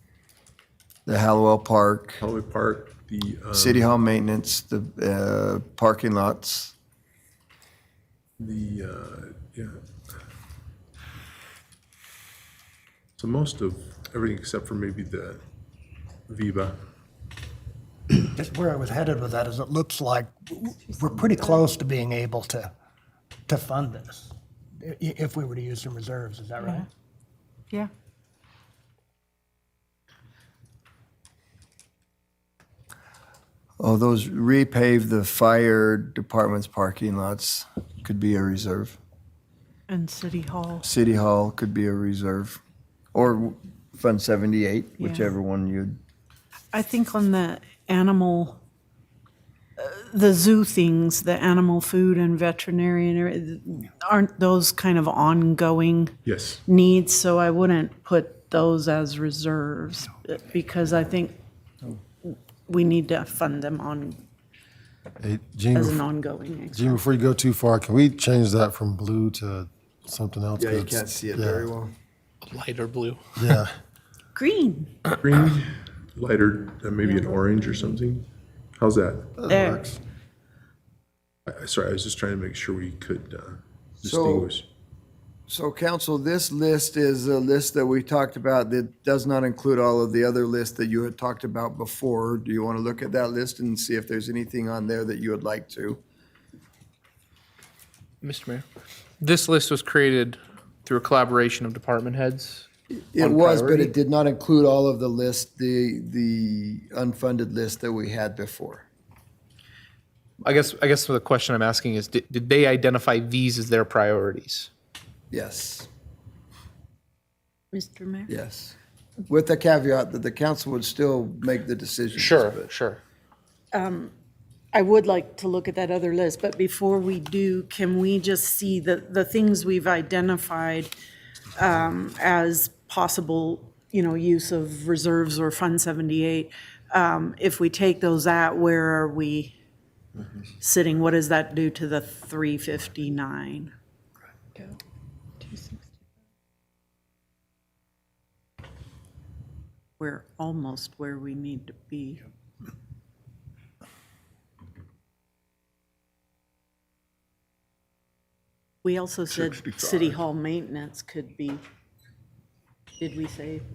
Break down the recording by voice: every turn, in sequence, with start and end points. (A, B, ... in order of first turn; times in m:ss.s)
0:01.0-0:02.2 A
0:02.2-0:03.9 B
0:03.5-0:06.7 A
0:08.4-0:09.8 B
0:13.2-0:15.4 B
0:16.3-0:16.8 B
0:18.2-0:22.7 C
0:20.9-0:21.6 D
0:23.5-0:26.9 C
0:33.8-0:39.0 A
0:39.9-0:40.8 D
0:40.8-0:42.6 A
0:43.1-0:46.0 A
0:45.0-0:45.3 D
0:46.7-0:48.6 D
0:49.8-1:01.4 D
0:56.2-0:56.6 B
1:02.2-1:04.2 D
1:05.2-1:06.0 E
1:05.7-1:07.0 D
1:06.7-1:11.6 E
1:10.6-1:11.9 A
1:12.4-1:13.6 F
1:13.4-1:13.7 E
1:14.3-1:14.9 D
1:15.2-1:18.3 B
1:17.0-1:17.9 D
1:18.8-1:19.3 B
1:19.4-1:19.8 E
1:19.5-1:20.0 D
1:21.5-1:24.6 B
1:24.0-1:24.5 A
1:25.5-1:36.0 A
1:38.2-1:38.6 F
1:39.2-1:42.7 F
1:43.1-1:48.8 A
1:43.2-1:43.9 F
1:50.4-1:54.7 F
1:55.3-1:55.9 A
1:57.7-1:58.3 D
1:58.3-1:58.7 A
1:59.3-2:02.7 A
2:02.2-2:03.0 F
2:03.7-2:04.1 D
2:04.7-2:10.9 D
2:11.6-2:19.5 D
2:20.6-2:23.7 D
2:25.4-2:25.8 D
2:30.0-2:32.2 D
2:38.8-2:41.6 D
2:43.0-2:43.6 D